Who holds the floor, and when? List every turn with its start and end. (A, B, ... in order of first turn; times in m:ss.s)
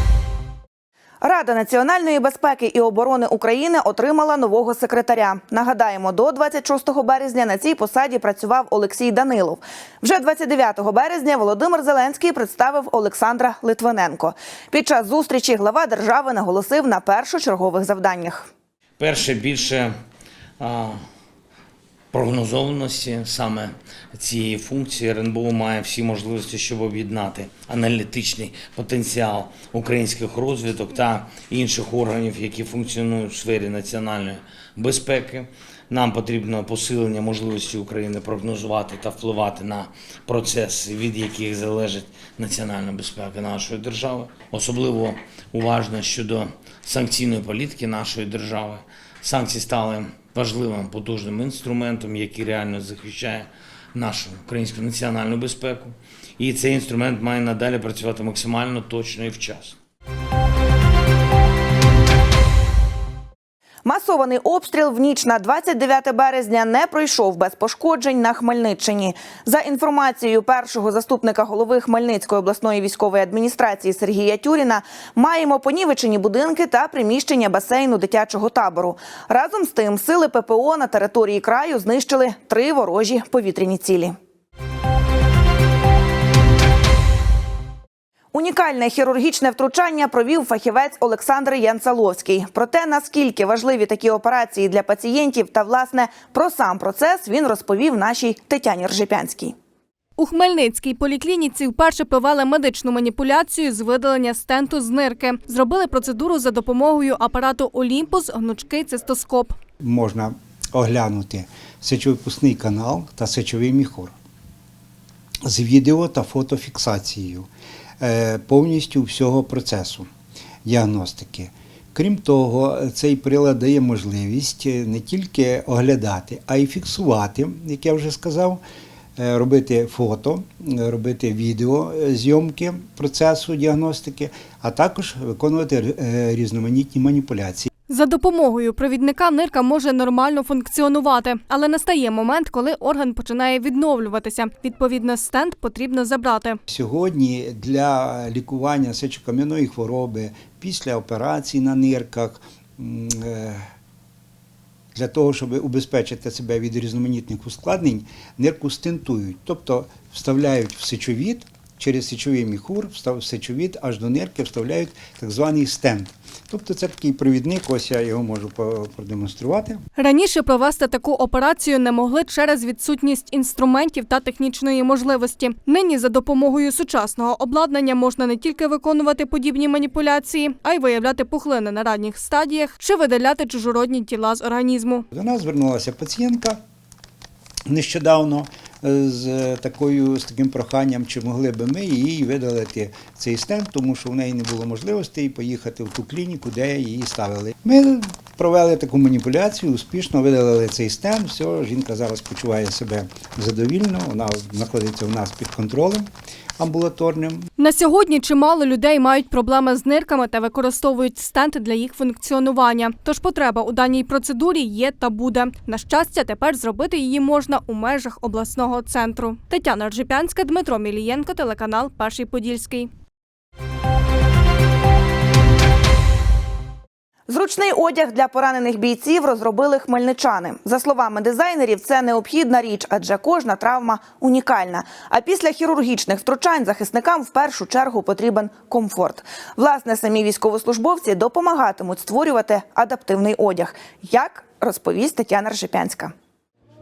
0:01.2-0:18.5 A
0:19.0-0:19.9 B
0:20.6-0:21.0 B
0:22.1-0:59.8 B
1:03.8-1:24.2 A
1:28.3-1:39.6 A
1:40.2-1:49.6 C
1:49.8-1:54.1 D
1:55.4-1:57.5 D
1:58.0-2:00.1 D
2:00.6-2:08.6 D
2:09.2-2:17.7 D
2:17.9-2:26.6 C
2:26.7-2:33.6 D
2:34.9-2:49.8 D
2:50.0-3:05.0 C
3:05.1-3:06.6 D
3:07.7-3:27.5 D
3:27.6-3:42.9 C
3:47.3-4:06.1 A